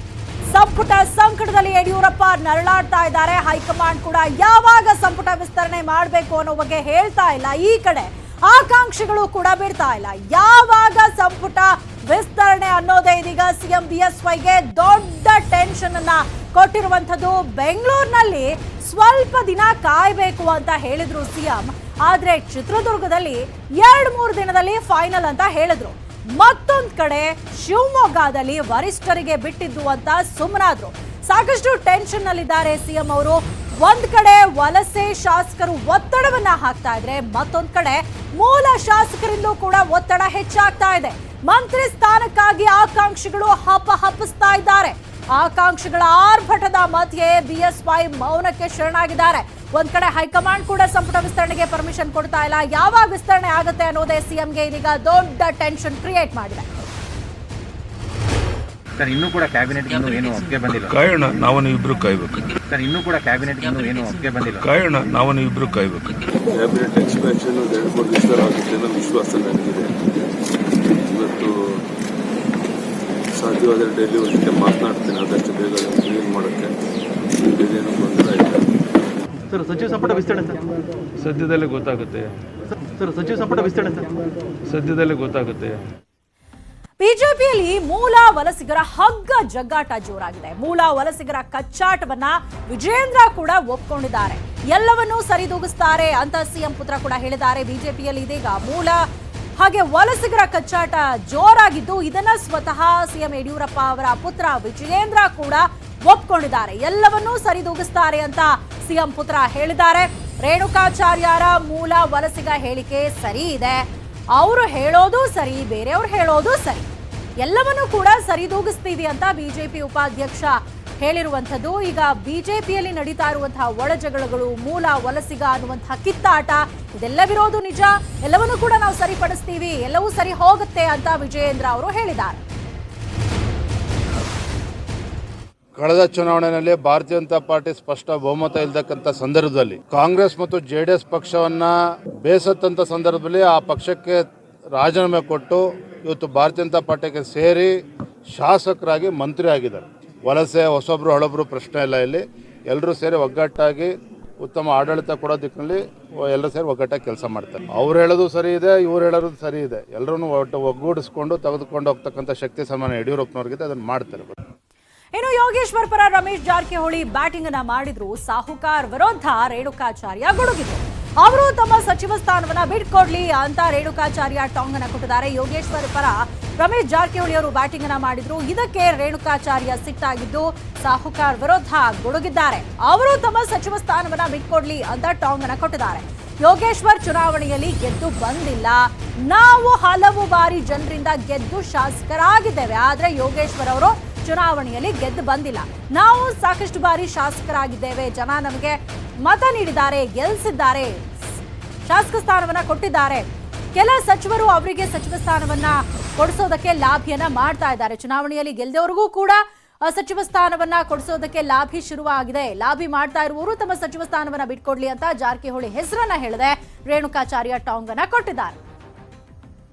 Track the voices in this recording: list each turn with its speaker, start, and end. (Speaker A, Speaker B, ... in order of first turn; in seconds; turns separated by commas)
Speaker A: 0.5-56.6, Speaker B: 59.0-60.9, Speaker C: 59.8-60.3, Speaker D: 60.4-62.5, Speaker B: 62.7-64.6, Speaker C: 63.6-64.2, Speaker D: 64.4-69.6, Speaker E: 66.6-69.9, Speaker D: 71.1-71.4, Speaker E: 73.4-76.6, Speaker D: 73.5-76.6, Speaker D: 77.6-78.3, Speaker E: 78.1-78.5, Speaker C: 79.5-80.5, Speaker D: 81.2-82.2, Speaker C: 83.0-84.0, Speaker D: 84.7-85.7, Speaker A: 87.0-99.0, Speaker A: 99.6-116.9, Speaker A: 117.4-132.4, Speaker F: 135.8-141.7, Speaker F: 142.2-144.2, Speaker F: 144.7-147.7, Speaker F: 148.3-164.3, Speaker A: 165.1-201.0, Speaker A: 201.9-218.6